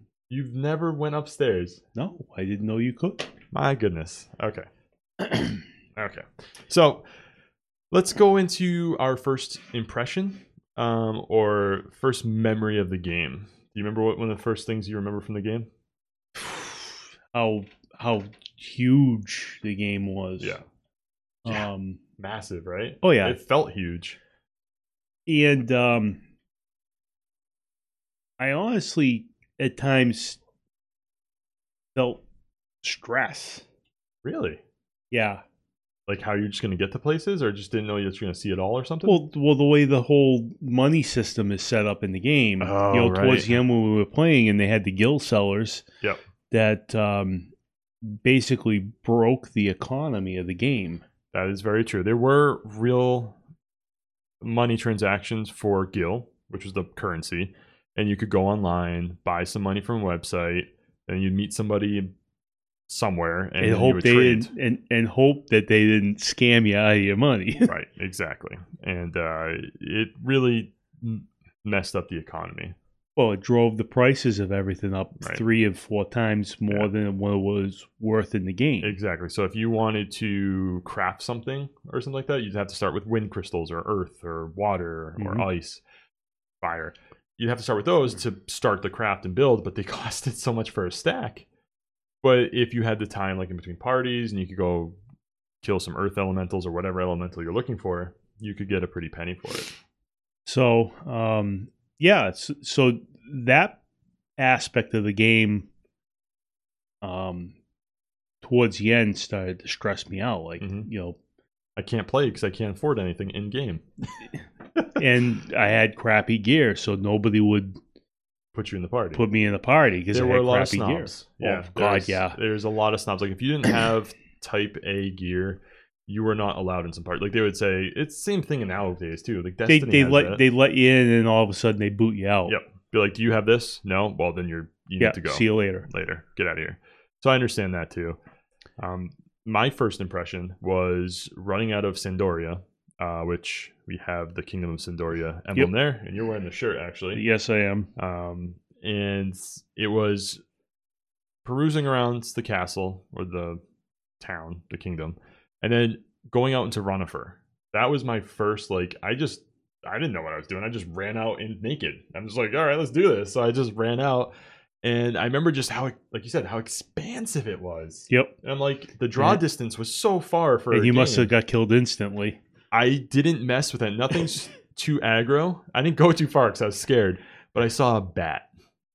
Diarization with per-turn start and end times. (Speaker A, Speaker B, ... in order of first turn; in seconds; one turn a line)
Speaker A: 0.3-1.8
Speaker B: 1.9-3.3
Speaker A: 3.5-4.7
Speaker B: 5.2-5.6
Speaker A: 6.0-7.1
Speaker A: 7.9-15.7
Speaker B: 16.3-20.6
Speaker A: 20.4-20.6
Speaker B: 21.4-22.0
Speaker A: 22.2-24.2
Speaker B: 23.0-23.4
Speaker B: 25.3-26.2
Speaker B: 28.4-30.4
Speaker B: 31.9-32.2
Speaker B: 32.8-33.6
Speaker A: 34.2-34.6
Speaker B: 35.1-35.4
Speaker A: 36.1-39.2
Speaker B: 39.0-45.8
Speaker A: 42.6-43.6
Speaker B: 46.5-47.5
Speaker B: 48.0-51.0
Speaker A: 51.3-53.4
Speaker A: 54.4-62.1
Speaker A: 62.9-64.5
Speaker B: 63.6-67.7
Speaker A: 67.6-72.8
Speaker B: 73.2-78.9
Speaker A: 78.8-85.8
Speaker B: 85.2-85.5
Speaker A: 86.6-91.5
Speaker A: 92.2-95.0
Speaker A: 95.6-99.7
Speaker B: 100.5-103.8
Speaker B: 104.4-105.7
Speaker B: 107.0-107.5
Speaker B: 108.4-111.2
Speaker A: 110.6-110.9
Speaker A: 111.8-113.8
Speaker B: 115.0-117.8
Speaker A: 118.5-119.2
Speaker B: 119.1-122.4
Speaker A: 120.1-130.4
Speaker B: 129.7-132.6
Speaker A: 132.4-138.2
Speaker B: 135.0-135.9
Speaker A: 138.8-147.2
Speaker B: 147.1-147.9
Speaker A: 147.9-150.4
Speaker A: 151.4-153.6
Speaker A: 154.2-171.3
Speaker B: 169.2-169.4
Speaker B: 170.7-172.4
Speaker A: 172.7-178.5